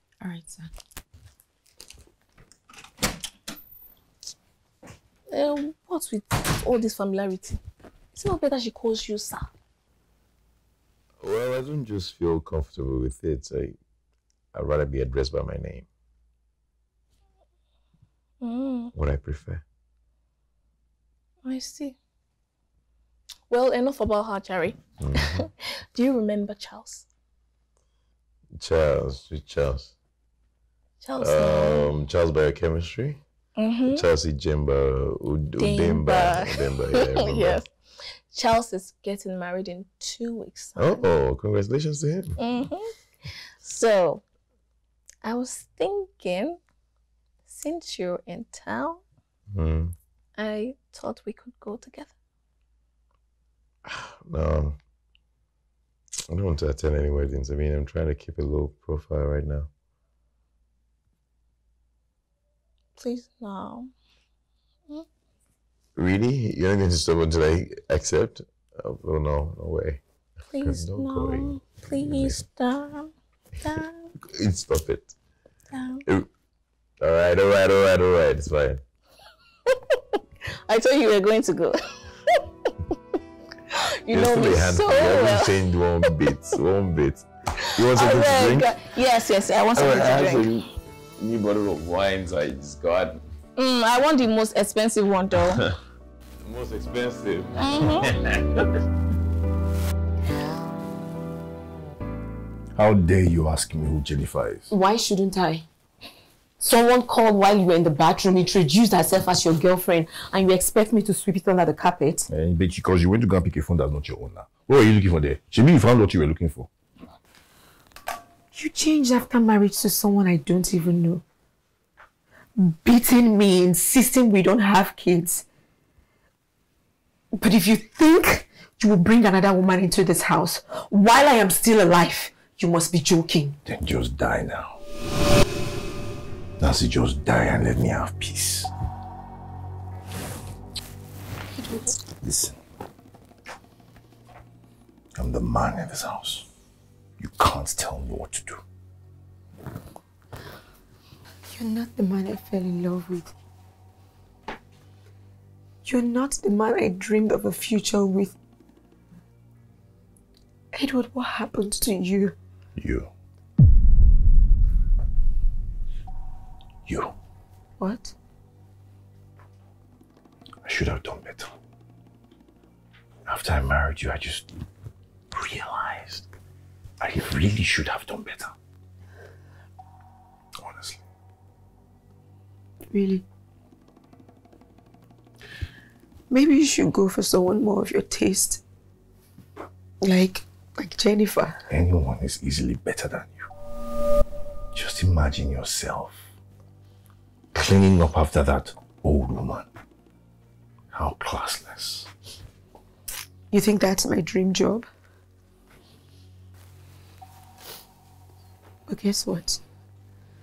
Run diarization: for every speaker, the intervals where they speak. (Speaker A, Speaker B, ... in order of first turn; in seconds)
Speaker A: 0.2-0.7, 104.7-105.7, 106.6-112.3, 118.5-121.2, 122.6-125.5, 127.3-133.6, 141.5-141.9, 151.5-153.3, 155.8-158.4, 160.7-162.4, 167.8-168.2, 182.9-183.2, 186.3-188.6, 190.0-191.6, 203.5-204.9, 208.9-209.6
Speaker B: 5.3-7.6, 8.1-9.5, 18.4-18.9, 21.4-22.0, 23.5-27.1, 31.0-31.9, 33.6-34.1, 35.6-37.7, 38.3-41.0, 42.4-42.9, 43.6-44.2, 45.2-46.6, 47.5-49.0, 50.4-52.1, 63.0-63.9, 70.5-74.1, 75.7-76.0, 80.7-82.0, 83.8-85.6, 87.7-90.5, 93.6-95.6, 97.6-98.2
Speaker C: 11.2-13.8, 14.5-15.9, 18.9-19.6, 25.0-25.4, 28.6-29.9, 31.2-33.2, 33.9-37.6, 40.8-42.4, 49.5-50.0, 53.9-54.8, 56.3-59.7, 66.0-70.0, 70.6-72.5, 74.2-75.2, 77.0-78.8, 84.1-88.8, 89.7-93.2, 95.4-95.8, 96.4-98.7
Speaker D: 102.8-104.7, 112.3-116.7, 133.7-134.8, 136.6-138.7, 142.2-142.6, 145.2-146.5, 147.2-148.6, 162.8-163.1, 166.9-167.2, 170.6-171.6, 173.3-174.5, 175.3-176.3, 177.0-178.6, 180.6-181.0, 191.7-193.5, 194.7-196.3, 197.5-199.7, 200.9-202.1